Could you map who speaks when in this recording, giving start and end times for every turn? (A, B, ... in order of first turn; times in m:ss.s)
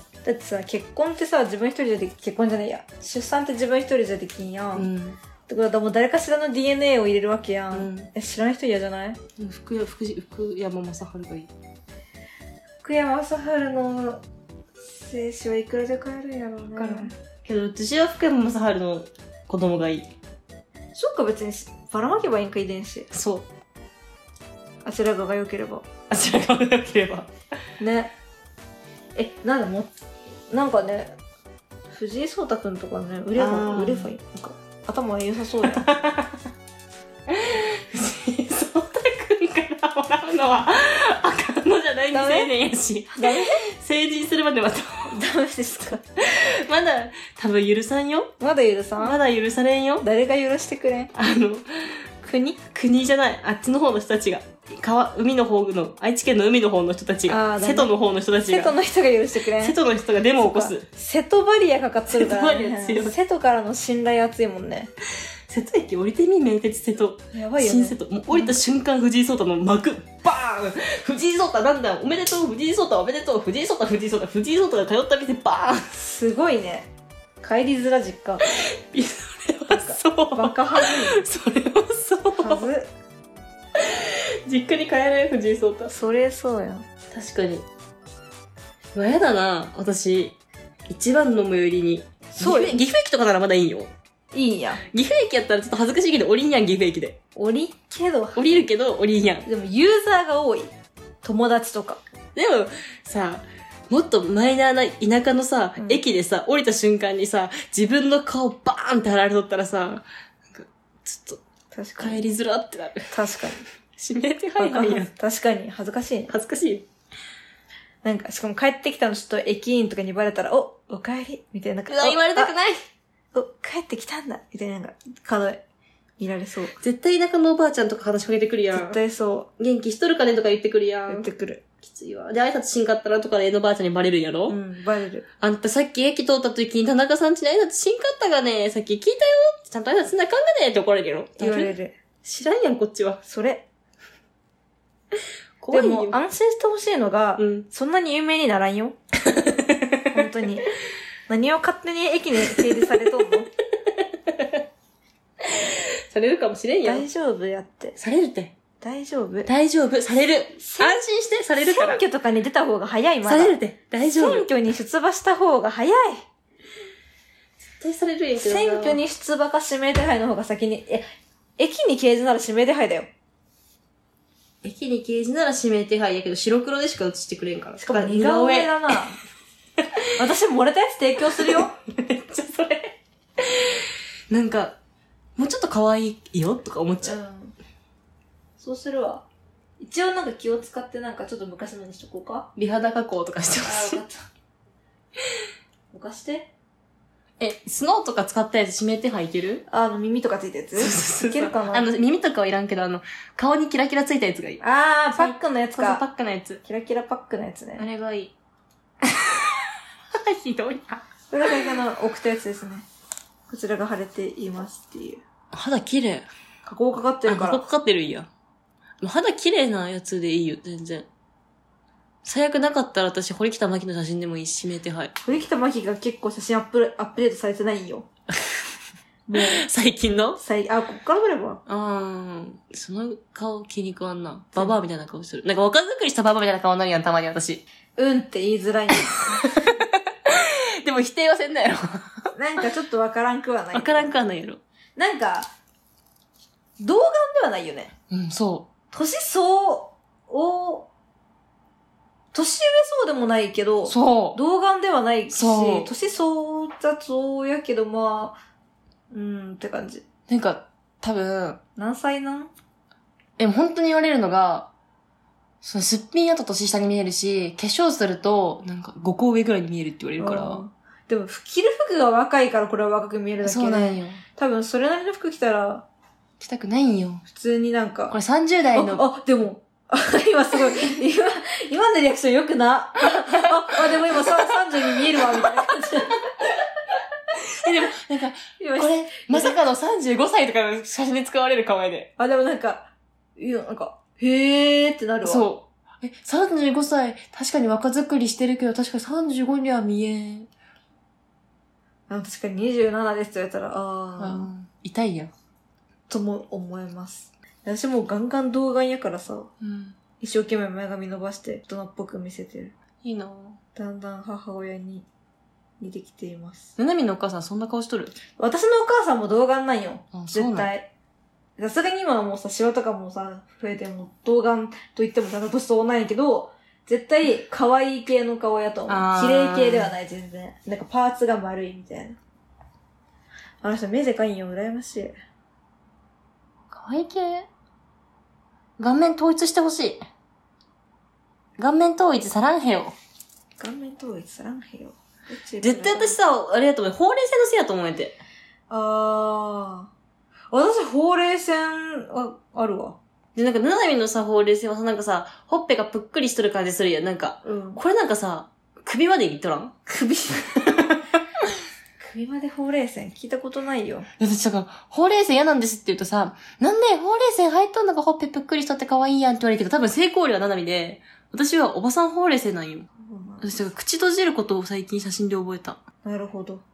0:00.2-0:04.9 A
0:04.8-0:05.2 B
0:05.5-0:09.2 A
0:07.7-0:08.1 B
0:09.4-0:11.5 B
0:12.8-0:14.2 A
0:14.9-0:17.1 A
0:16.8-0:20.1 B
0:21.0-0:23.1 A
0:23.1-0:23.5 B
0:24.8-0:25.9 A
0:26.1-0:27.3 B
0:27.8-0:28.1 A
0:29.2-0:29.9 A
0:30.5-0:31.2 A
0:31.9-0:35.9 A
0:33.4-0:34.1 B
0:35.7-0:36.4 B
0:37.3-0:45.2 B
0:42.1-0:42.5 A
0:43.1-0:43.6 A
0:45.1-0:46.0 A
0:46.2-0:48.3 B
0:48.4-0:49.2 A
0:49.0-0:50.0 B
0:50.0-0:51.1 A
0:51.1-0:52.0 B
0:52.2-0:52.6 A
0:52.7-0:58.8 B
0:57.3-0:57.9 A
0:58.5-0:59.8 A
0:59.6-1:00.9 B
1:00.4-1:04.9 A
1:02.1-1:03.2 B
1:05.5-1:15.9 B
1:07.3-1:08.6 A
1:15.9-1:16.9 A
1:17.4-1:18.4 A
1:18.5-1:22.7 B
1:19.7-1:21.2 A
1:22.4-1:22.9 A
1:23.8-1:26.0 B
1:25.9-1:26.9 A
1:27.1-1:27.7 B
1:28.9-1:30.4 B
1:30.9-1:33.9 B
1:32.4-1:32.8 A
1:34.3-1:34.8 A
1:34.9-1:37.2 B
1:37.4-1:38.5 A
1:38.4-1:39.5 B
1:39.4-1:40.7 A
1:41.2-1:42.0 A
1:42.4-1:51.4 B
1:45.8-1:46.0 A
1:51.7-1:52.2 A
1:52.0-1:53.2 B
1:53.1-1:53.6 A
1:54.0-1:55.1 B
1:54.6-1:56.3 A
1:56.3-1:56.8 B
1:58.0-2:02.5 A
2:01.9-2:02.8 B
2:03.3-2:05.6 A
2:06.2-2:06.8 A
2:06.8-2:09.0 B
2:08.7-2:09.5 A
2:09.6-2:11.3 B
2:11.1-2:11.6 A
2:11.8-2:14.6 B
2:14.5-2:15.3 A
2:15.4-2:23.2 B
2:21.4-2:22.0 A
2:23.2-2:23.7 A
2:25.6-2:26.2 B
2:25.7-2:29.0 A
2:27.4-2:27.7 B
2:29.2-2:30.1 B
2:30.1-2:30.7 A
2:31.3-2:33.5 A
2:32.5-2:32.9 B
2:33.9-2:34.6 B
2:35.4-2:37.0 B
2:36.8-2:38.0 A
2:38.0-2:38.5 B
2:38.8-2:39.5 A
2:39.5-2:42.0 B
2:40.6-2:41.0 A
2:41.6-2:43.6 A
2:43.3-2:44.5 B
2:44.1-2:46.2 A
2:47.6-2:49.0 B
2:48.4-2:51.0 A
2:51.6-2:53.1 A
2:54.6-2:59.0 B
2:57.8-2:59.2 A
3:00.2-3:01.7 A
3:01.4-3:04.8 B
3:05.4-3:07.2 B
3:07.0-3:07.6 A
3:08.6-3:09.3 A
3:09.8-3:12.5 A
3:12.6-3:14.0 B
3:13.6-3:14.2 A
3:15.9-3:16.5 A
3:17.4-3:19.6 B
3:19.7-3:21.9 A
3:20.8-3:24.6 B
3:24.6-3:26.0 A
3:25.1-3:26.6 B
3:26.6-3:27.8 A
3:27.8-3:28.3 B
3:29.1-3:29.5 B
3:30.1-3:31.6 B
3:31.3-3:32.9 A
3:33.5-3:35.2 A
3:35.5-3:36.3 B
3:36.7-3:37.6 A
3:37.3-3:38.3 B
3:39.0-3:41.1 B
3:42.2-3:45.1 B
3:45.2-3:48.1 A
3:49.3-3:49.7 A
3:49.3-3:50.4 B
3:50.4-3:51.6 A
3:51.7-3:57.6 B
3:58.0-3:59.7 A
3:59.1-4:02.3 B
4:02.4-4:04.1 A
4:03.7-4:04.6 B
4:05.0-4:05.5 A
4:06.8-4:07.9 A
4:08.1-4:08.7 B
4:08.9-4:10.9 A
4:12.3-4:18.4 A
4:13.9-4:14.4 B
4:15.3-4:15.9 B
4:19.1-4:20.0 A
4:20.3-4:21.6 B
4:21.8-4:22.5 A
4:23.4-4:24.7 B
4:25.6-4:30.6 B
4:30.2-4:35.9 A
4:33.4-4:34.2 B
4:36.4-4:37.2 B
4:37.3-4:38.2 A
4:38.1-4:39.0 B
4:38.8-4:46.2 A
4:43.4-4:44.3 B
4:47.5-4:52.1 B
4:48.6-4:49.6 A
4:52.2-4:55.5 A
4:55.2-5:00.5 B
5:02.1-5:04.5 A
5:04.2-5:05.3 B
5:06.1-5:09.5 A
5:09.6-5:10.0 B
5:10.2-5:12.8 A
5:13.0-5:13.6 B
5:13.8-5:15.1 A
5:15.8-5:16.8 A
5:16.8-5:18.2 B
5:18.4-5:20.9 A
5:20.1-5:20.7 B
5:21.6-5:32.2 A
5:28.9-5:29.9 B
5:33.6-5:35.2 A
5:36.7-5:37.5 B
5:38.8-5:40.0 B
5:41.6-5:43.0 B
5:43.6-5:46.2 A
5:45.6-5:48.2 B
5:48.7-5:49.9 A
5:50.5-5:53.0 A
5:53.4-5:59.8 B
5:57.4-5:57.8 A
5:59.9-6:00.8 A
6:02.0-6:04.1 A
6:04.2-6:12.9 B
6:13.0-6:13.6 A
6:13.4-6:15.8 B
6:16.0-6:16.6 A